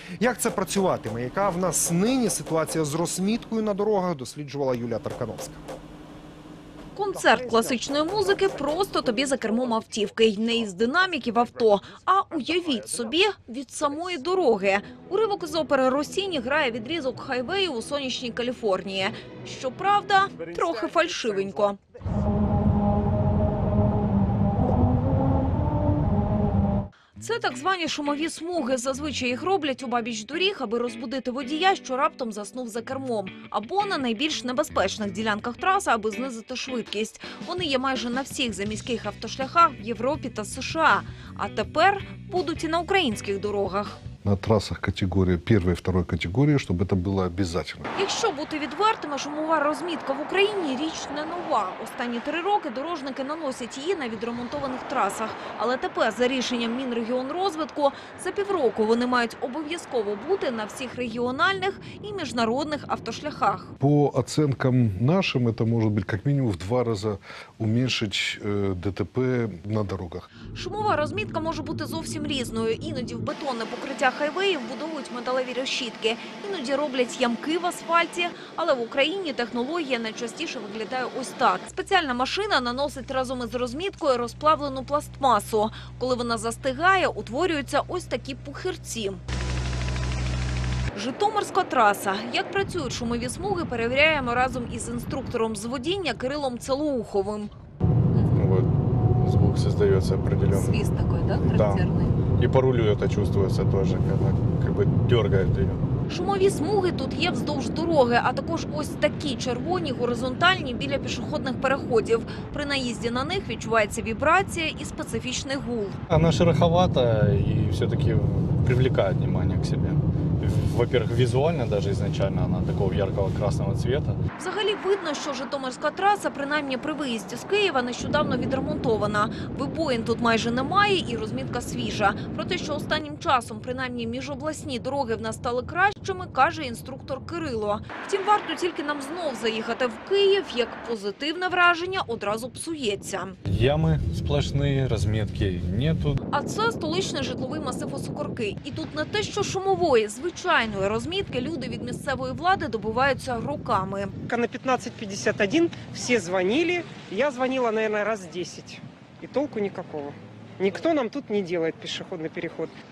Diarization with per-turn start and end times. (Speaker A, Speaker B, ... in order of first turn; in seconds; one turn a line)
Speaker A: 0.2-5.6
Speaker B: 6.9-21.8
Speaker B: 27.2-44.0
Speaker C: 44.2-47.9
Speaker B: 47.9-63.7
Speaker C: 63.8-70.3
Speaker B: 70.5-89.2
Speaker B: 90.9-97.5
Speaker B: 98.1-98.4
Speaker D: 98.3-100.8
Speaker B: 100.5-102.2
Speaker D: 101.4-105.8
Speaker B: 106.1-116.0
Speaker D: 116.1-124.2
Speaker B: 124.4-143.4
Speaker D: 143.4-146.2
Speaker B: 146.3-154.1
Speaker E: 154.2-162.7